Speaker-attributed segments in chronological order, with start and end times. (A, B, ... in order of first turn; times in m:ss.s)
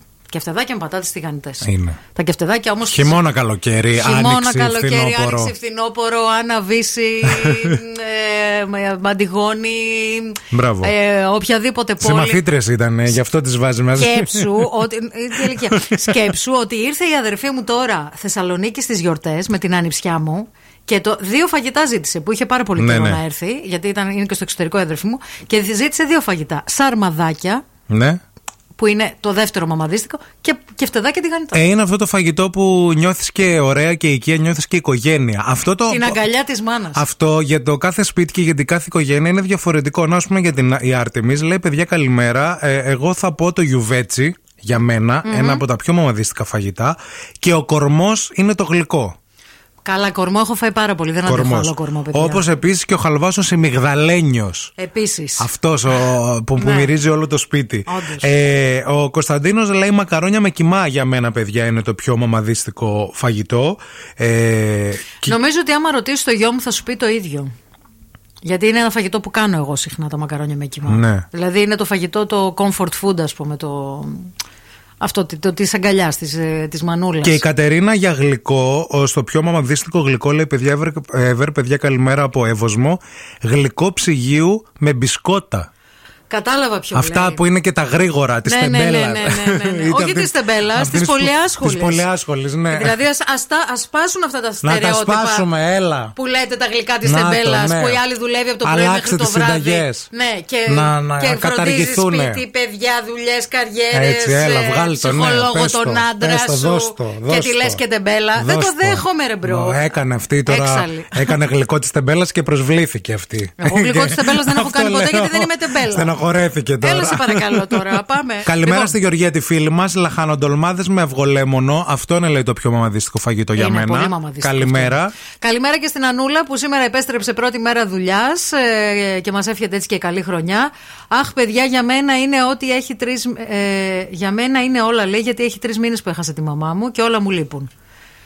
0:00.3-0:03.2 A
0:01.6-0:02.0 B
0:02.9-0:05.5 B
0:03.9-0:12.4 A
0:07.2-0:07.8 B
0:10.5-0:10.9 B
0:12.0-0:14.7 B
0:13.9-0:27.6 A
0:15.4-0:16.0 B
0:22.8-0:23.2 B
0:27.9-0:28.2 B
0:28.8-0:31.6 A
0:31.5-0:36.2 B
0:35.9-0:37.0 A
0:36.9-0:49.2 B
0:45.2-0:45.6 A
0:49.8-0:52.4 A
0:51.2-0:54.7 B
0:54.8-0:55.5 A
0:55.4-1:05.3 B
0:56.6-0:56.9 A
0:57.8-0:58.3 A
1:05.2-1:07.5 A
1:08.4-1:14.3 A
1:10.9-1:11.2 B
1:15.0-1:17.4 A
1:17.2-1:25.7 B
1:26.3-1:27.4 A
1:26.9-1:33.0 B
1:28.4-1:32.1 A
1:32.7-1:35.5 A
1:34.6-1:36.1 B
1:36.2-1:49.8 A
1:37.0-1:38.0 B
1:38.6-1:40.1 B
1:40.7-1:42.4 B
1:43.9-1:47.8 B
1:48.4-1:57.8 B
1:50.5-1:51.3 A
1:53.6-1:56.1 A
1:56.8-1:58.9 A
1:58.4-2:05.1 B
2:03.5-2:17.7 A